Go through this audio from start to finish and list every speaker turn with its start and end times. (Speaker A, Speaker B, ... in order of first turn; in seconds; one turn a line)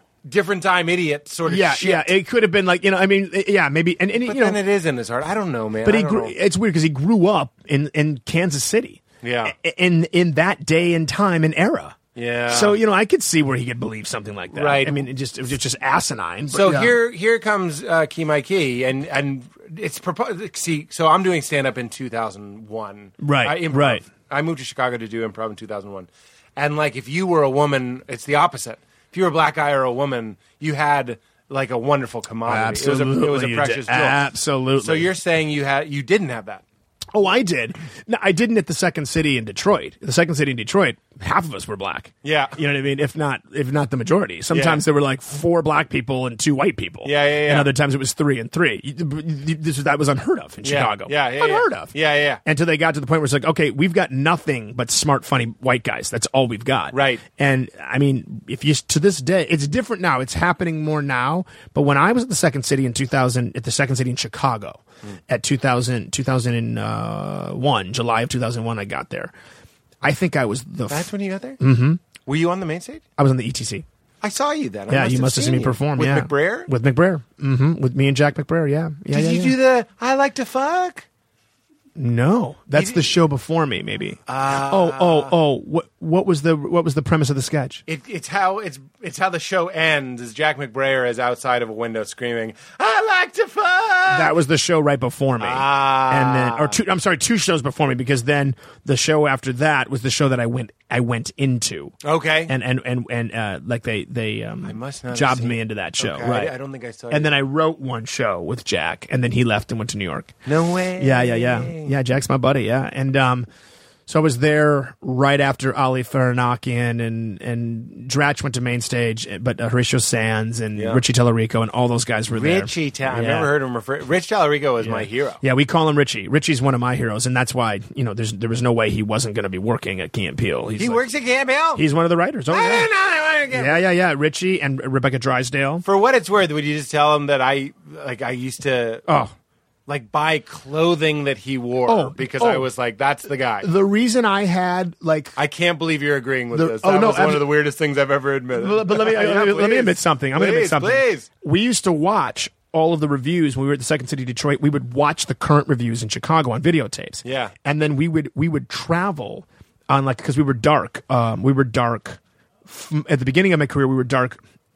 Speaker A: 0.2-2.1
Speaker B: 1.5-4.6
Speaker A: 4.2-6.3
Speaker B: 5.8-12.0
Speaker A: 9.2-9.5
Speaker A: 12.2-12.8
Speaker B: 12.5-16.9
Speaker A: 14.5-15.1
Speaker A: 16.5-36.6
Speaker B: 23.2-24.1
Speaker B: 32.5-35.1
Speaker B: 37.1-51.9
Speaker A: 42.2-42.6
Speaker A: 44.5-44.8
Speaker A: 47.0-47.7
Speaker A: 50.6-52.4
Speaker B: 52.5-69.3
Speaker A: 56.9-57.2
Speaker B: 70.0-72.0
Speaker A: 70.9-71.6
Speaker A: 72.2-73.0
Speaker B: 73.2-73.8
Speaker A: 74.2-76.7
Speaker B: 74.9-79.6
Speaker A: 79.1-81.1
Speaker B: 82.0-87.8
Speaker A: 82.7-83.2
Speaker A: 84.3-85.3
Speaker A: 87.9-94.3
Speaker B: 94.1-101.9
Speaker A: 95.4-96.8
Speaker A: 102.0-102.5
Speaker B: 102.5-106.5
Speaker A: 104.6-107.3
Speaker B: 107.1-110.4
Speaker A: 110.5-111.9
Speaker B: 111.0-113.5
Speaker B: 114.1-123.5
Speaker A: 120.8-121.0
Speaker A: 122.3-125.4
Speaker B: 124.8-131.1
Speaker A: 130.8-131.8
Speaker B: 131.8-132.9
Speaker A: 132.5-133.8
Speaker B: 133.5-135.8
Speaker A: 135.8-139.1
Speaker B: 139.1-139.3
Speaker A: 139.9-143.7
Speaker B: 141.9-142.7
Speaker B: 143.6-145.4
Speaker A: 145.4-151.3
Speaker B: 146.5-147.5
Speaker B: 148.6-164.4
Speaker A: 157.2-157.5